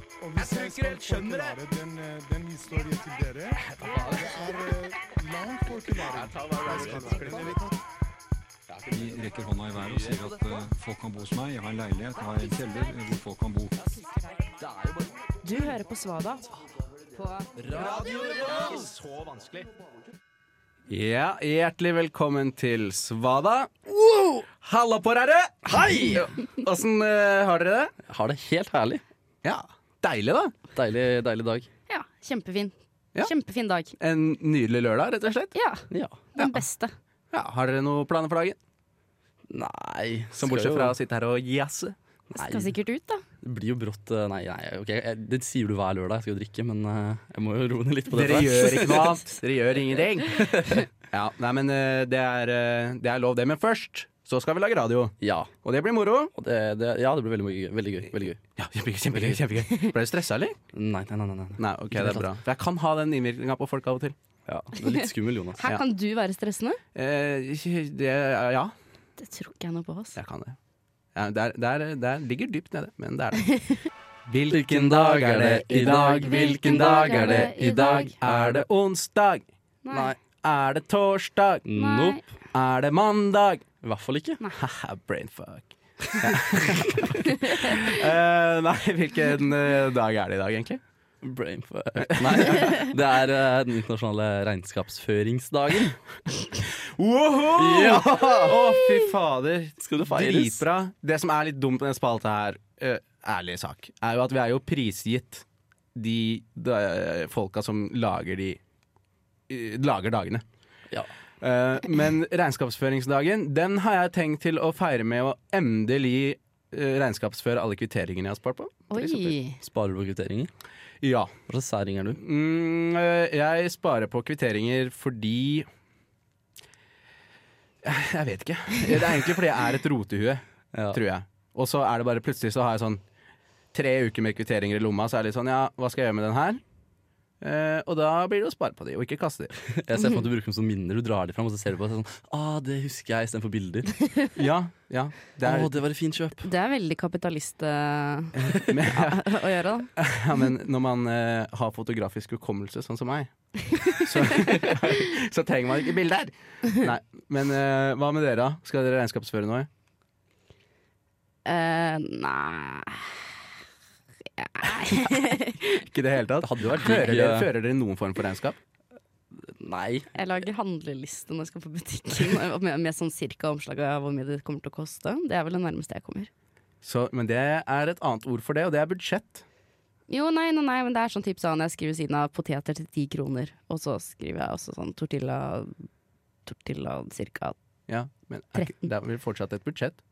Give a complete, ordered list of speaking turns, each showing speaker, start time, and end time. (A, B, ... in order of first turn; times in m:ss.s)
0:00.2-0:07.8 A
0:00.4-0:01.6 B
0:03.7-0:04.4 B
0:06.1-0:07.6 B
0:08.9-0:14.0 C
0:14.6-0:15.1 B
0:15.4-0:16.5 D
0:17.2-0:17.4 D
0:17.6-0:19.7 B
0:20.9-0:23.8 B
0:23.9-0:24.4 E
0:24.6-0:27.9 B
0:25.6-0:26.3 E
0:28.1-0:29.0 E
0:29.4-0:30.5 B
0:30.7-0:31.7 E
0:31.9-0:33.9 D
0:34.0-0:35.5 B
0:35.5-0:36.9 D
0:35.9-0:36.2 E
0:36.4-0:36.6 B
0:37.3-0:38.6 B
0:39.5-0:40.9 E
0:40.4-0:42.0 B
0:42.3-0:42.7 E
0:42.3-0:43.2 D
0:43.4-0:49.2 E
0:48.1-0:56.3 B
0:50.3-0:50.9 E
0:55.2-0:55.5 E
0:56.4-0:58.4 E
0:58.6-1:00.6 B
0:59.1-0:59.4 E
1:00.7-1:02.3 E
1:01.6-1:04.2 B
1:04.5-1:05.6 E
1:05.6-1:06.8 D
1:06.9-1:08.7 B
1:09.2-1:10.2 D
1:10.2-1:10.6 B
1:11.1-1:13.4 B
1:14.3-1:19.5 B
1:14.5-1:18.6 E
1:15.8-1:18.2 D
1:19.8-1:20.1 D
1:20.4-1:21.7 B
1:21.6-1:22.2 E
1:21.7-1:22.2 D
1:22.5-1:23.6 B
1:23.8-1:24.4 E
1:24.6-1:30.8 B
1:27.4-1:27.9 D
1:31.2-1:36.0 E
1:32.0-1:32.9 B
1:36.8-1:48.6 B
1:37.5-1:38.7 E
1:39.8-1:40.6 E
1:49.5-1:50.4 B
1:51.4-1:59.3 B
1:58.9-1:59.6 D
1:59.6-2:00.5 E
2:01.0-2:01.3 B
2:01.5-2:02.2 E
2:02.1-2:05.7 B
2:07.8-2:13.0 B
2:10.7-2:11.0 E
2:13.7-2:16.6 B
2:17.4-2:19.6 B
2:19.7-2:23.9 E
2:24.3-2:25.8 B
2:25.4-2:26.5 E
2:26.4-2:29.9 D
2:28.4-2:29.3 B
2:30.0-2:33.3 B
2:33.7-2:34.0 D
2:33.8-2:39.7 B
2:41.4-2:43.2 D
2:44.4-2:45.8 D
2:45.9-2:48.6 B
2:46.4-2:47.5 E
2:49.4-2:50.1 E
2:50.1-2:56.3 D
2:56.8-2:59.4 B
3:00.1-3:05.8 D
3:06.4-3:07.5 D
3:07.9-3:10.0 B
3:08.6-3:08.8 D